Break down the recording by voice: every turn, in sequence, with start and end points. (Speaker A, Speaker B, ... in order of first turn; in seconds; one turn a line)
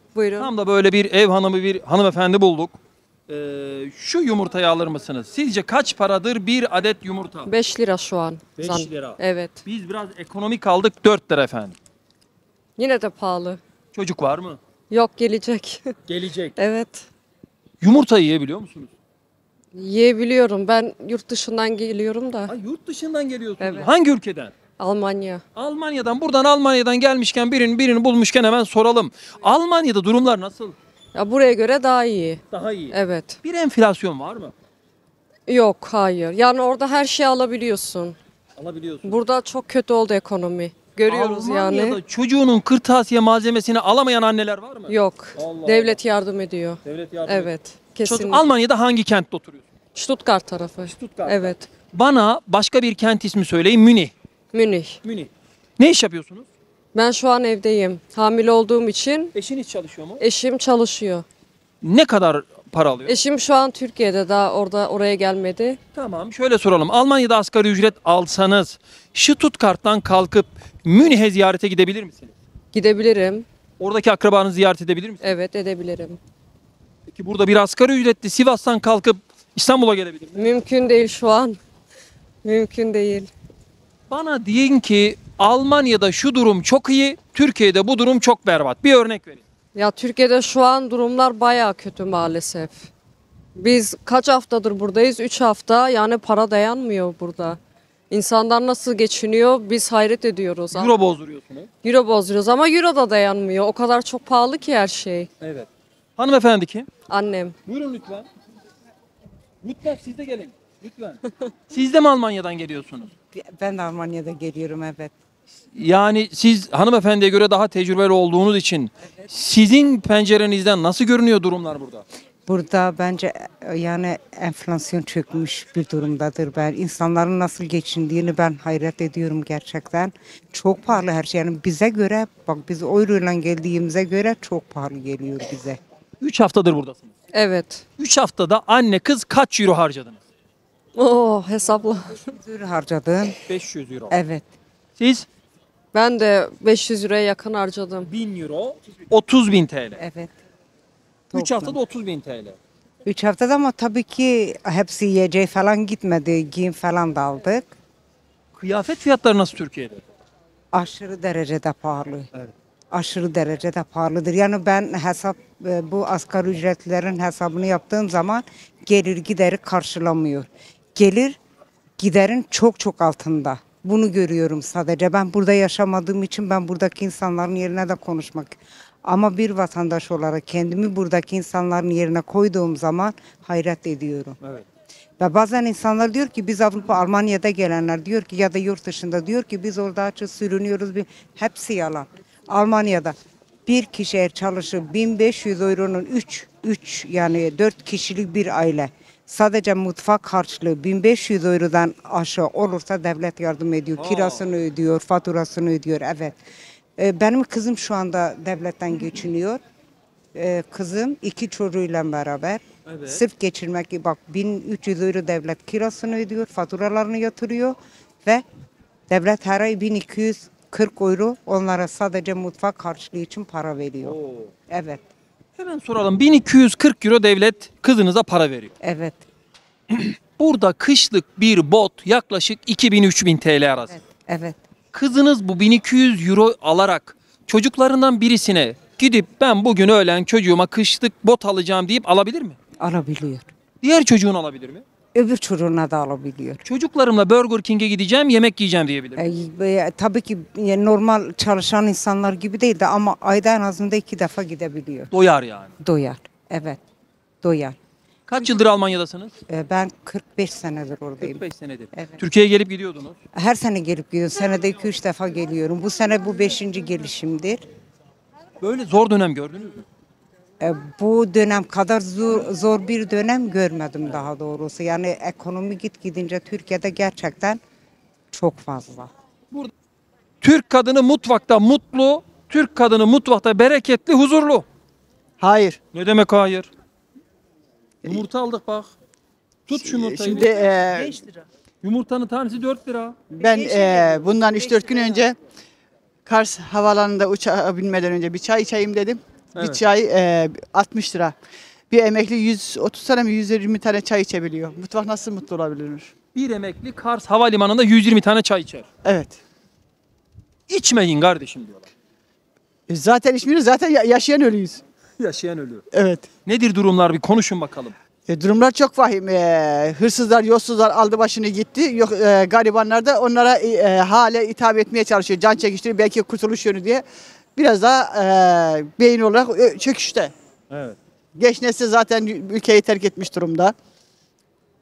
Speaker A: 0.1-0.5
Speaker B: 0.4-2.8
Speaker B: 3.3-7.5
Speaker A: 7.5-9.6
Speaker B: 8.6-11.8
Speaker A: 12.8-13.6
Speaker B: 13.9-14.6
Speaker A: 14.9-15.9
Speaker B: 16.1-16.6
Speaker A: 16.6-17.1
Speaker B: 17.8-18.9
Speaker A: 19.7-22.5
Speaker B: 22.5-24.5
Speaker A: 23.6-23.9
Speaker A: 24.8-25.4
Speaker B: 25.6-30.8
Speaker A: 31.1-33.4
Speaker B: 32.5-34.5
Speaker A: 35.5-38.2
Speaker B: 38.6-39.2
Speaker A: 39.0-42.0
Speaker B: 41.1-46.0
Speaker A: 44.9-48.4
Speaker B: 46.8-47.5
Speaker B: 48.0-49.6
Speaker A: 50.0-51.7
Speaker B: 50.9-54.1
Speaker A: 54.5-55.0
Speaker B: 55.0-56.5
Speaker A: 56.9-59.4
Speaker B: 59.3-60.2
Speaker A: 60.2-61.2
Speaker B: 61.8-63.1
Speaker A: 63.1-65.8
Speaker B: 65.9-72.3
Speaker A: 72.7-73.5
Speaker B: 73.8-75.2
Speaker A: 75.2-76.2
Speaker B: 77.1-80.5
Speaker A: 80.4-81.6
Speaker A: 82.4-83.3
Speaker B: 84.1-89.4
Speaker A: 89.8-92.9
Speaker A: 93.6-97.6
Speaker A: 98.1-101.0
Speaker B: 100.7-101.7
Speaker A: 101.8-105.3
Speaker B: 105.4-106.9
Speaker A: 107.1-107.6
Speaker B: 107.7-108.3
Speaker B: 109.6-113.1
Speaker C: 113.3-115.1
Speaker B: 115.8-122.0
Speaker C: 122.5-135.8
Speaker B: 136.2-137.1
Speaker A: 137.3-137.8
Speaker B: 138.0-140.2
Speaker A: 140.9-142.3
Speaker C: 142.3-143.4
Speaker B: 143.5-144.2
Speaker C: 144.1-144.5
Speaker B: 145.0-145.3
Speaker A: 145.9-148.1
Speaker B: 148.1-150.0
Speaker C: 150.0-150.3
Speaker C: 151.3-151.8
Speaker B: 151.3-152.6
Speaker C: 153.1-157.7
Speaker B: 158.5-160.0
Speaker C: 160.7-162.3
Speaker C: 162.9-171.4
Speaker C: 172.0-184.4
Speaker C: 185.2-193.2
Speaker C: 193.7-206.4
Speaker B: 204.0-204.5
Speaker C: 207.0-209.6
Speaker C: 210.3-218.4
Speaker B: 212.9-213.2
Speaker C: 219.1-225.0
Speaker B: 224.0-224.5
Speaker B: 225.6-228.7
Speaker C: 228.8-229.2
Speaker B: 229.9-233.9
Speaker C: 233.9-234.6
Speaker B: 234.9-242.6
Speaker C: 242.8-243.5
Speaker B: 243.8-244.8
Speaker C: 245.1-246.6
Speaker B: 246.6-249.2
Speaker C: 249.2-255.1
Speaker B: 255.1-255.7
Speaker C: 255.8-256.8
Speaker C: 257.4-257.8
Speaker B: 258.3-259.4
Speaker C: 259.5-262.2
Speaker B: 261.2-263.2
Speaker C: 263.3-267.6
Speaker B: 268.6-269.9
Speaker C: 270.6-277.6
Speaker C: 278.3-279.1
Speaker B: 280.4-284.7
Speaker D: 285.4-285.8
Speaker B: 285.9-286.7
Speaker B: 288.0-288.9
Speaker B: 289.7-290.6
Speaker D: 289.8-291.2
Speaker B: 291.8-293.2
Speaker D: 293.3-295.4
Speaker D: 296.3-301.4
Speaker B: 299.5-299.8
Speaker D: 301.9-306.1
Speaker B: 306.3-308.9
Speaker D: 309.0-309.4
Speaker B: 310.7-311.9
Speaker D: 312.9-314.8
Speaker B: 315.2-315.8
Speaker D: 315.9-316.3
Speaker B: 316.4-317.9
Speaker D: 318.3-327.1
Speaker D: 327.6-330.3
Speaker B: 330.7-331.0
Speaker D: 331.4-333.8